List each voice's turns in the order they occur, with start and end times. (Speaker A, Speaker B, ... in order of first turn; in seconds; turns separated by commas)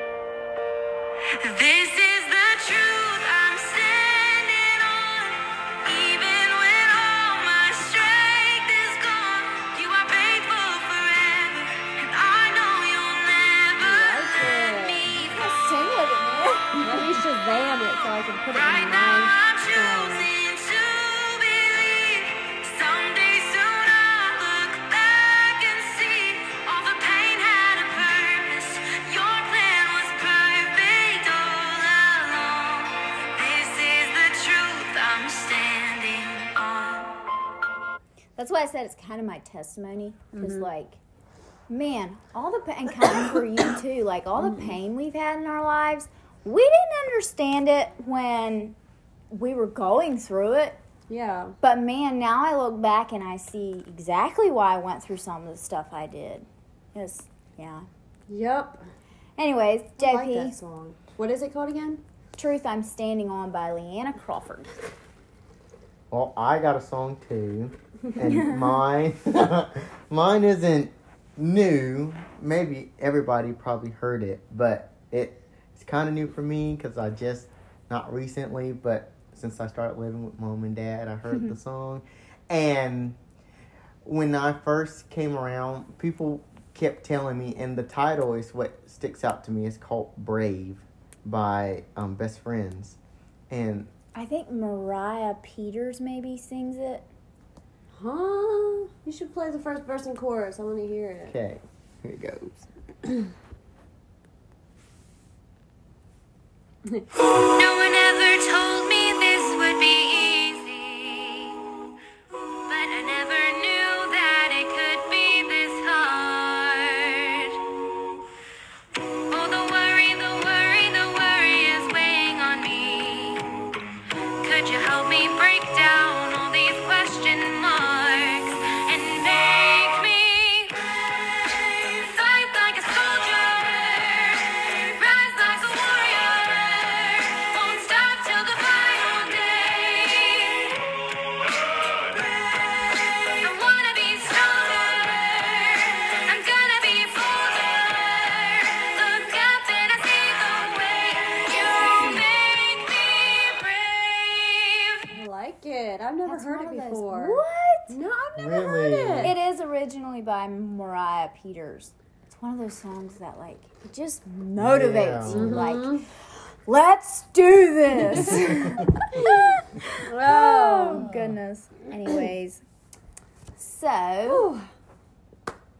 Speaker A: 1.4-15.4, Speaker B: 13.8-15.1, Speaker C: 15.2-17.1, Speaker B: 16.8-20.3, Speaker A: 18.5-37.2, Speaker C: 38.4-41.0, Speaker B: 40.4-40.7, Speaker C: 41.7-48.8, Speaker B: 44.4-44.8, Speaker C: 49.3-50.8, Speaker B: 51.1-51.6, Speaker C: 51.6-57.9, Speaker B: 58.3-58.8, Speaker C: 59.4-60.5, Speaker B: 60.0-62.0, Speaker C: 62.4-64.8, Speaker D: 66.1-83.2, Speaker D: 84.0-93.0, Speaker D: 93.5-93.9, Speaker C: 94.2-97.1, Speaker B: 97.9-101.4, Speaker D: 101.3-102.7, Speaker A: 107.3-111.6, Speaker A: 112.7-117.6, Speaker A: 119.3-123.5, Speaker A: 124.4-130.9, Speaker A: 131.7-140.8, Speaker A: 143.4-155.0, Speaker B: 155.1-159.3, Speaker C: 156.3-158.0, Speaker D: 158.4-159.3, Speaker C: 159.2-166.0, Speaker D: 164.6-165.6, Speaker B: 165.3-166.1, Speaker C: 166.7-172.6, Speaker D: 168.3-168.7, Speaker B: 169.2-169.6, Speaker B: 170.1-171.3, Speaker C: 173.6-174.5, Speaker B: 174.2-174.7